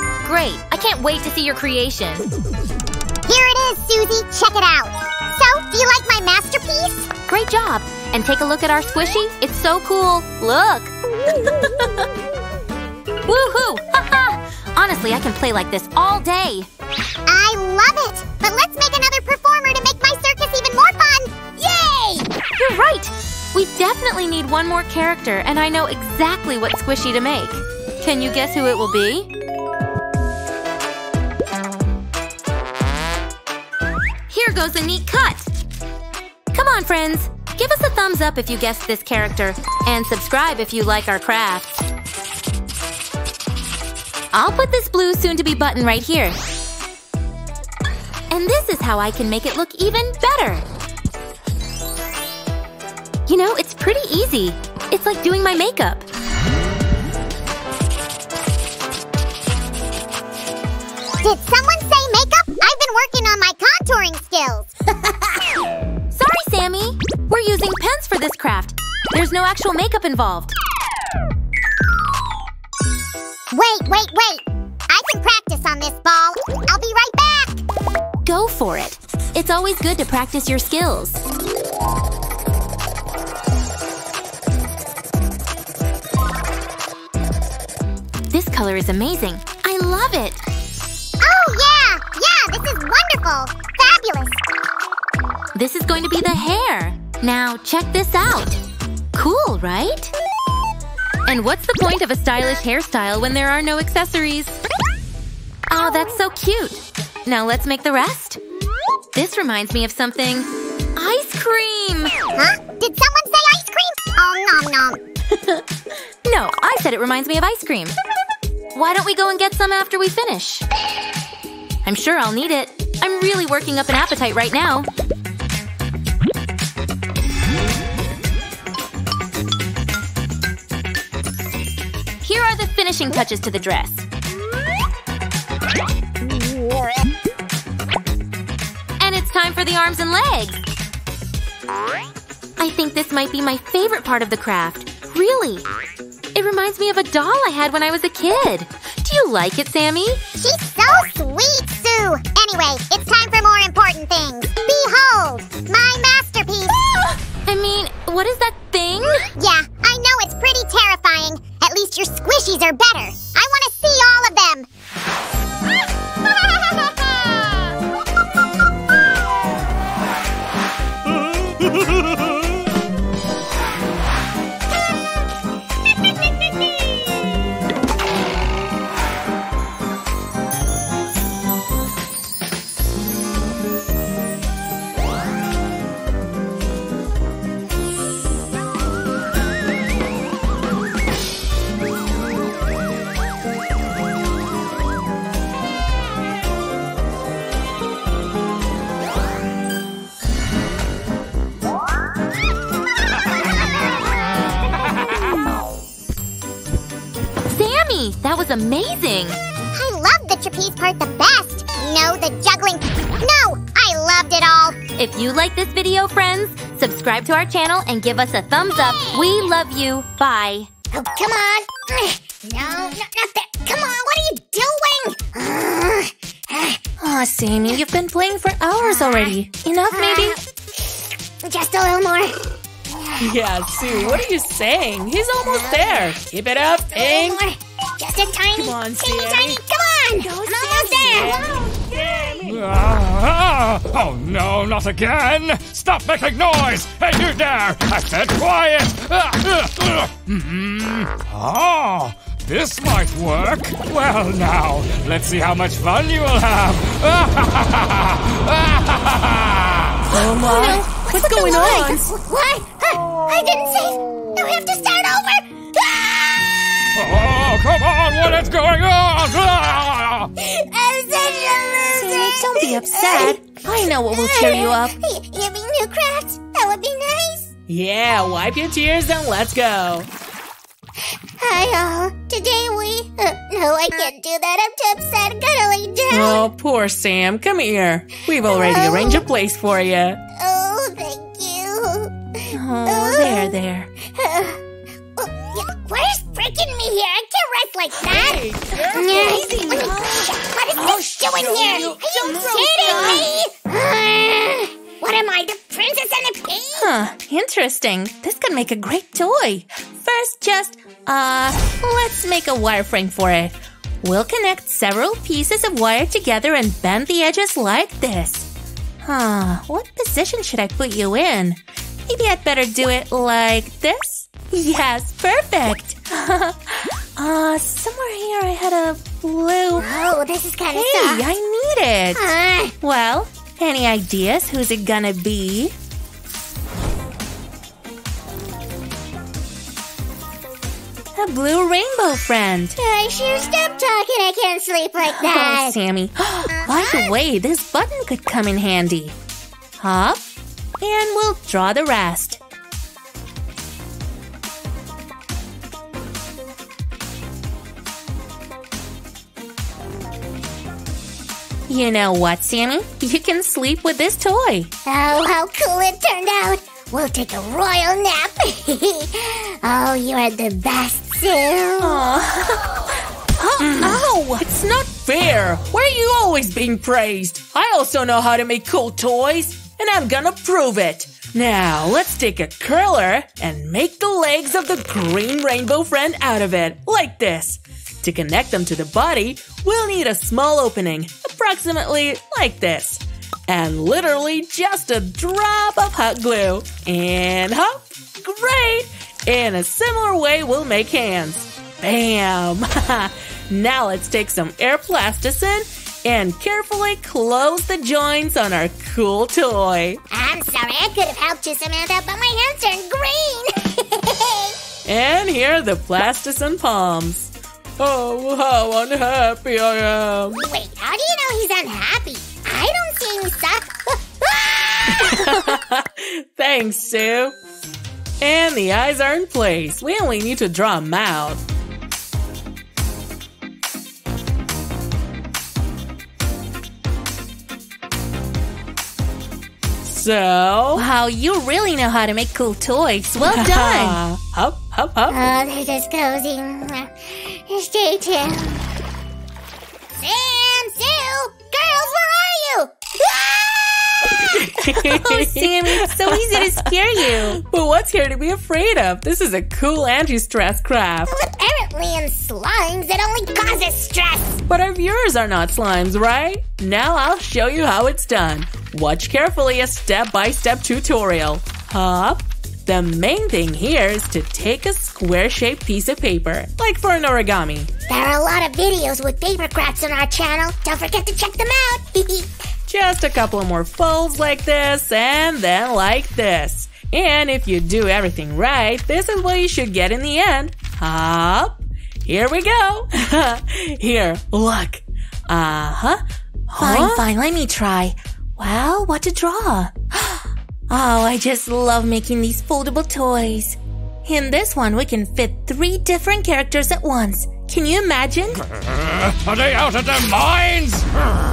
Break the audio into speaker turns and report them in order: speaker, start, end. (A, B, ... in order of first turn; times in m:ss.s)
0:00.2-0:02.3 A
0:03.2-0:07.1 B
0:07.3-0:10.9 A
0:11.4-0:12.0 A
0:13.2-0:16.7 A
0:17.2-0:21.4 B
0:21.6-0:22.3 C
0:22.6-0:29.3 A
0:34.3-0:35.5 A
0:36.5-0:41.8 A
0:44.3-0:46.4 A
0:48.3-0:50.6 A
0:53.2-0:56.0 A
1:01.2-1:04.7 B
1:06.1-1:10.6 A
1:13.5-1:17.6 B
1:18.2-1:21.2 A
1:28.3-1:30.4 A
1:31.2-1:34.4 B
1:35.6-1:38.6 A
1:39.1-1:40.1 A
1:41.2-1:44.6 A
1:45.7-1:48.4 A
1:49.1-1:52.1 A
1:52.4-1:55.0 B
1:56.2-1:58.0 A
1:58.8-2:00.6 A
2:01.8-2:04.9 A
2:12.2-2:14.1 A
2:19.0-2:20.6 A
2:22.6-2:25.6 A
2:26.4-2:30.2 A
2:30.4-2:37.0 B
2:37.4-2:39.3 A
2:39.4-2:44.7 B
3:27.5-3:29.4 A
3:29.7-3:34.8 B
3:35.0-3:40.7 A
3:40.9-3:46.8 C
3:47.0-3:50.4 D
3:48.9-3:49.3 C
3:49.9-3:53.3 C
3:53.2-3:57.4 E
3:53.8-3:54.2 C
3:55.4-3:56.2 C
3:56.9-4:02.6 C
3:58.5-3:59.6 E
4:00.2-4:02.4 E
4:00.6-4:01.3 D
4:02.5-4:20.0 F
4:20.1-4:21.9 E
4:20.1-4:22.1 D
4:20.3-4:26.6 C
4:27.0-4:30.3 F
4:30.4-4:33.4 C
4:31.9-4:35.0 D
4:34.1-4:37.5 C
4:37.7-4:40.1 E
4:41.4-4:46.5 C
4:46.1-4:50.2 E
4:48.4-4:49.2 C
4:50.4-4:53.5 C
4:52.5-4:53.9 D
4:54.0-4:54.6 C
4:55.2-5:06.9 C
4:58.2-4:59.8 E
4:58.9-5:00.2 D
5:00.8-5:03.1 D
5:00.8-5:03.2 E
5:06.8-5:18.5 D
5:19.0-5:30.0 D
5:29.8-5:31.2 C
5:30.7-5:35.7 D
5:32.1-5:32.7 C
5:41.1-5:42.8 D
5:42.8-5:45.8 C
5:45.0-5:49.2 D
5:46.5-5:47.1 C
5:49.8-5:50.2 D
5:50.8-5:52.4 D
6:01.7-6:04.7 D
6:04.9-6:12.0 C
6:11.8-6:14.4 D
6:13.6-6:50.0 E
6:50.1-6:54.6 C
6:54.8-7:00.4 E
7:00.4-7:05.4 C
7:05.0-7:07.4 E
7:08.2-7:11.4 E
7:19.8-7:20.9 E
7:20.8-7:24.0 D
7:23.2-7:25.2 E
7:25.1-7:28.6 C
7:30.0-7:34.4 C
7:34.3-7:41.2 E
7:34.8-7:37.4 D
7:41.1-7:44.4 C
7:44.5-7:57.7 E
7:57.9-8:02.4 C
8:02.7-8:17.1 E
8:16.6-8:28.4 D
8:28.6-8:30.9 F